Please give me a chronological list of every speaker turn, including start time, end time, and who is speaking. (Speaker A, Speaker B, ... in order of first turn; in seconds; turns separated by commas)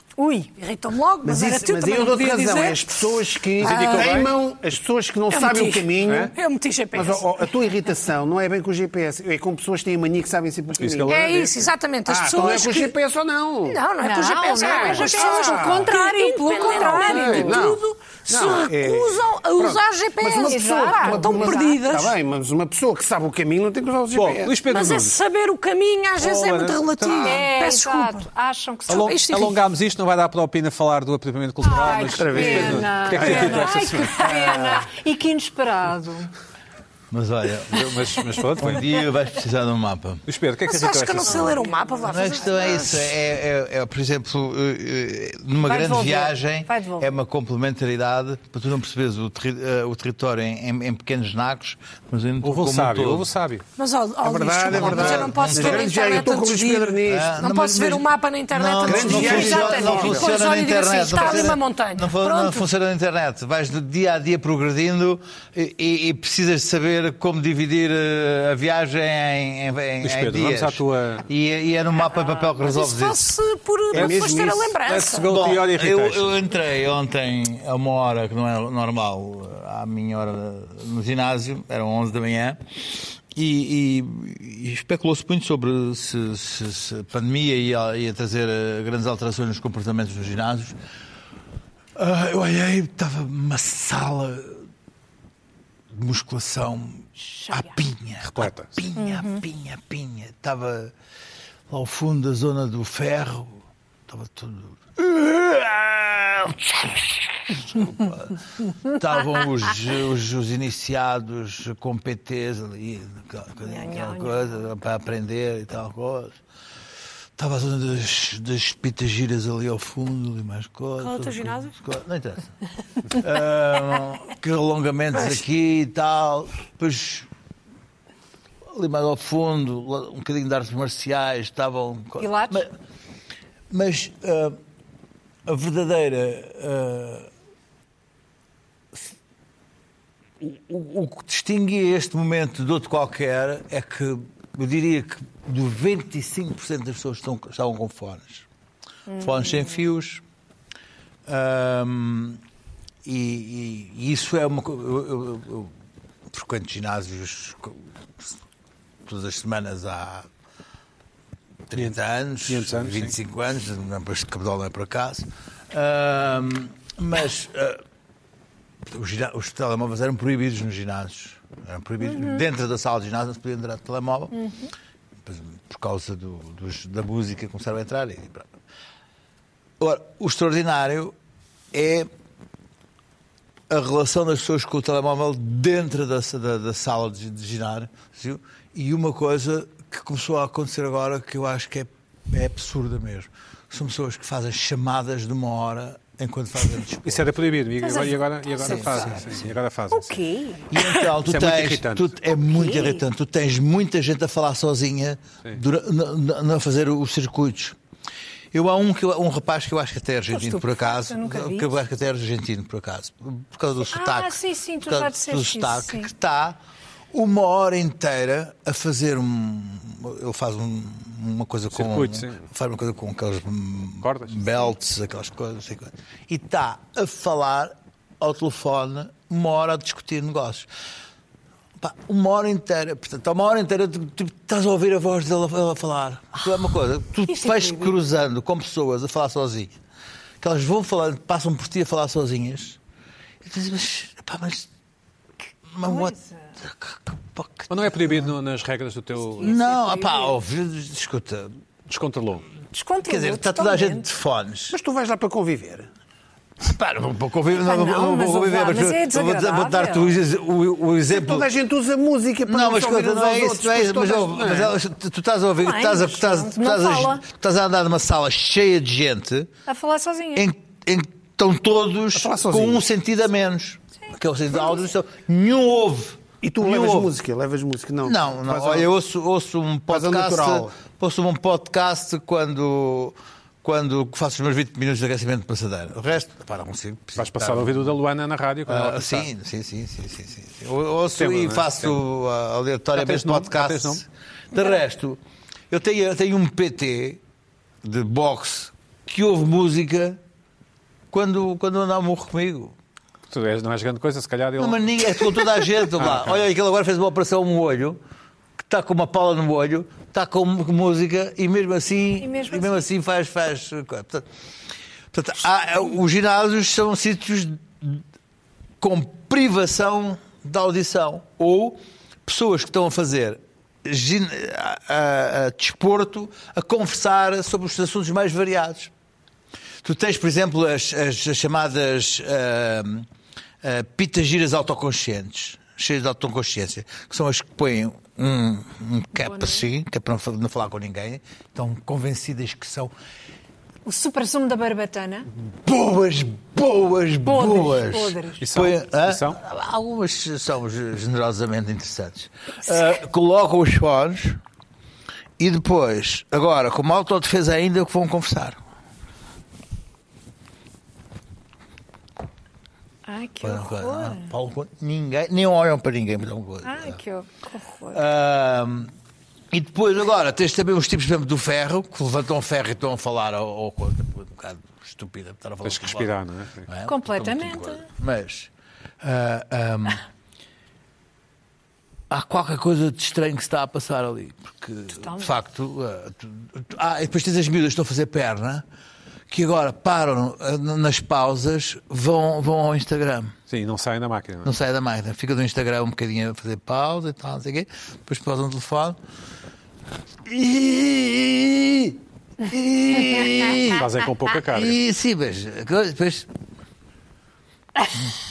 Speaker A: 0.2-0.5, Speaker B: 0.6-4.2, Speaker C: 1.2-6.3, Speaker D: 3.6-4.3, Speaker B: 5.3-7.4, Speaker D: 6.1-6.3, Speaker C: 6.9-11.4, Speaker D: 10.8-11.6, Speaker B: 11.1-12.9, Speaker C: 12.1-13.8, Speaker B: 13.7-22.1, Speaker A: 14.0-17.7, Speaker C: 14.6-15.9, Speaker C: 16.6-24.6, Speaker A: 20.4-21.8, Speaker D: 24.1-25.1, Speaker B: 24.7-28.2, Speaker D: 26.2-27.4, Speaker A: 27.2-29.2, Speaker D: 28.9-34.8, Speaker B: 29.0-29.6, Speaker A: 31.6-36.3, Speaker C: 32.1-33.6, Speaker B: 34.2-34.8, Speaker E: 37.1-38.0, Speaker D: 37.7-38.9, Speaker E: 38.6-40.2, Speaker D: 40.3-41.6, Speaker B: 40.7-43.2, Speaker A: 41.2-42.7, Speaker E: 42.0-53.3, Speaker A: 45.6-47.1, Speaker D: 52.4-53.6, Speaker B: 53.8-62.7, Speaker C: 54.2-57.3, Speaker E: 54.7-56.3, Speaker E: 57.1-73.3, Speaker C: 58.9-60.4, Speaker A: 59.1-60.2, Speaker D: 70.0-71.3, Speaker B: 72.0-75.4, Speaker C: 73.9-74.8, Speaker D: 73.9-76.4, Speaker E: 75.2-82.6, Speaker E: 83.3-90.8, Speaker E: 92.0-94.6, Speaker E: 95.9-100.9, Speaker A: 97.3-97.7, Speaker D: 98.3-98.8, Speaker A: 99.0-99.4, Speaker E: 101.7-116.4, Speaker A: 113.6-114.5, Speaker E: 117.4-122.5, Speaker B: 121.0-121.8, Speaker E: 123.1-127.3, Speaker B: 125.2-125.4, Speaker E: 128.7-132.7, Speaker A: 132.2-132.6, Speaker E: 133.7-134.6, Speaker E: 135.5-137.3, Speaker E: 140.4-148.4, Speaker A: 149.1-149.6, Speaker E: 149.2-150.2, Speaker E: 151.3-152.4, Speaker E: 153.1-155.7, Speaker E: 156.3-158.3, Speaker E: 159.1-160.3, Speaker E: 161.7-167.8, Speaker D: 161.7-163.2, Speaker E: 168.9-174.4, Speaker A: 172.0-172.4, Speaker A: 174.4-174.7, Speaker E: 175.2-178.5, Speaker E: 179.8-181.2, Speaker E: 181.7-182.1, Speaker E: 183.7-197.3, Speaker D: 197.0-200.2, Speaker A: 197.8-199.3, Speaker E: 198.7-199.1, Speaker A: 199.9-200.8, Speaker E: 200.7-207.8, Speaker D: 201.2-202.1, Speaker A: 202.4-203.1, Speaker E: 208.5-216.6, Speaker A: 210.3-211.7, Speaker A: 213.8-216.1, Speaker E: 217.1-230.7, Speaker D: 221.7-222.4, Speaker D: 224.0-224.7, Speaker E: 231.8-239.8, Speaker A: 237.3-238.0, Speaker E: 240.4-242.8, Speaker E: 243.4-244.7, Speaker E: 245.7-248.2, Speaker A: 245.9-246.5, Speaker D: 247.7-249.6, Speaker E: 249.4-251.5, Speaker A: 249.4-250.3, Speaker D: 251.9-252.4, Speaker A: 252.7-254.0, Speaker E: 253.0-254.8, Speaker C: 254.7-255.9, Speaker E: 256.6-261.5, Speaker A: 257.5-260.2, Speaker C: 261.1-264.8, Speaker E: 262.5-269.5, Speaker A: 265.6-267.2, Speaker A: 269.7-270.5, Speaker E: 270.4-277.1, Speaker C: 272.1-272.9, Speaker C: 276.4-278.9, Speaker E: 278.1-287.9, Speaker C: 279.9-280.8, Speaker D: 287.2-289.3, Speaker E: 288.7-295.2, Speaker D: 291.1-292.0, Speaker D: 292.9-294.0, Speaker E: 295.7-297.2, Speaker E: 297.8-300.2, Speaker E: 301.1-302.8, Speaker D: 303.3-304.9, Speaker E: 304.6-308.0, Speaker D: 306.0-306.4, Speaker E: 308.6-314.3, Speaker A: 312.2-312.9, Speaker E: 315.1-318.0, Speaker E: 318.8-328.9, Speaker E: 329.8-333.1, Speaker E: 333.6-342.9, Speaker A: 339.2-339.6, Speaker A: 343.9-345.3, Speaker E: 345.6-354.4, Speaker A: 347.2-348.5, Speaker D: 348.4-349.4, Speaker E: 355.4-358.6, Speaker A: 363.1-364.3, Speaker E: 363.4-367.0, Speaker A: 366.6-368.0, Speaker E: 367.9-368.9, Speaker E: 369.5-376.1, Speaker D: 375.6-376.7, Speaker E: 376.7-378.5, Speaker A: 376.9-377.9, Speaker E: 379.0-380.0, Speaker E: 382.1-388.6, Speaker A: 385.0-385.3, Speaker E: 389.3-393.3, Speaker D: 393.5-394.5, Speaker E: 394.4-399.0, Speaker E: 400.3-403.9, Speaker D: 403.7-404.8, Speaker E: 404.4-406.3